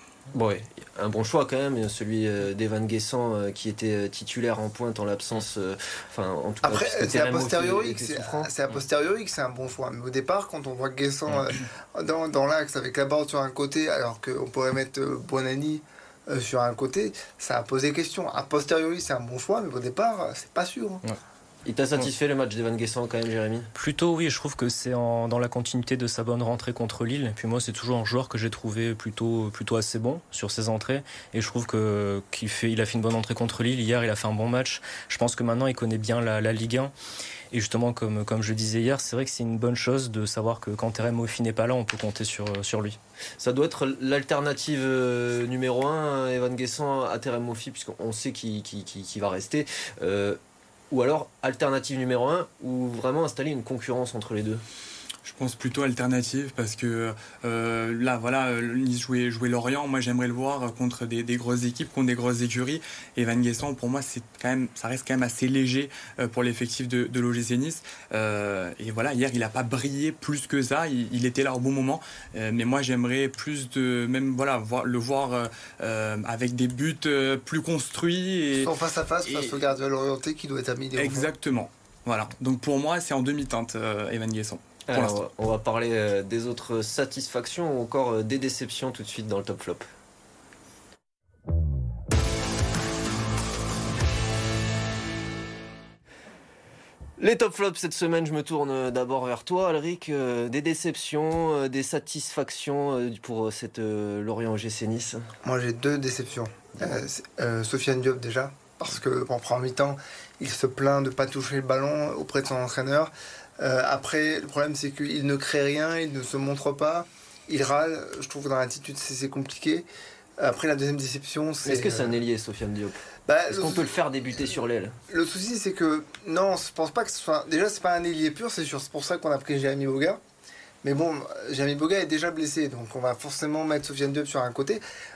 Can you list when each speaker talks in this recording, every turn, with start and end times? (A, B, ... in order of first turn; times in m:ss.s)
0:00.3-0:08.5 A
0:06.6-0:21.0 B
0:21.6-0:23.7 A
0:23.8-0:36.9 C
0:37.5-0:43.0 C
0:43.4-0:50.4 A
0:50.9-0:54.6 A
0:55.2-1:18.7 D
1:18.5-1:21.3 B
1:19.2-1:19.6 D
1:21.0-1:25.2 D
1:24.9-1:29.9 A
1:37.2-1:45.2 A
1:45.4-1:59.9 B
2:00.4-2:02.2 B
2:01.6-2:05.0 A
2:03.3-2:03.9 B
2:05.1-2:10.2 B
2:10.8-2:14.8 B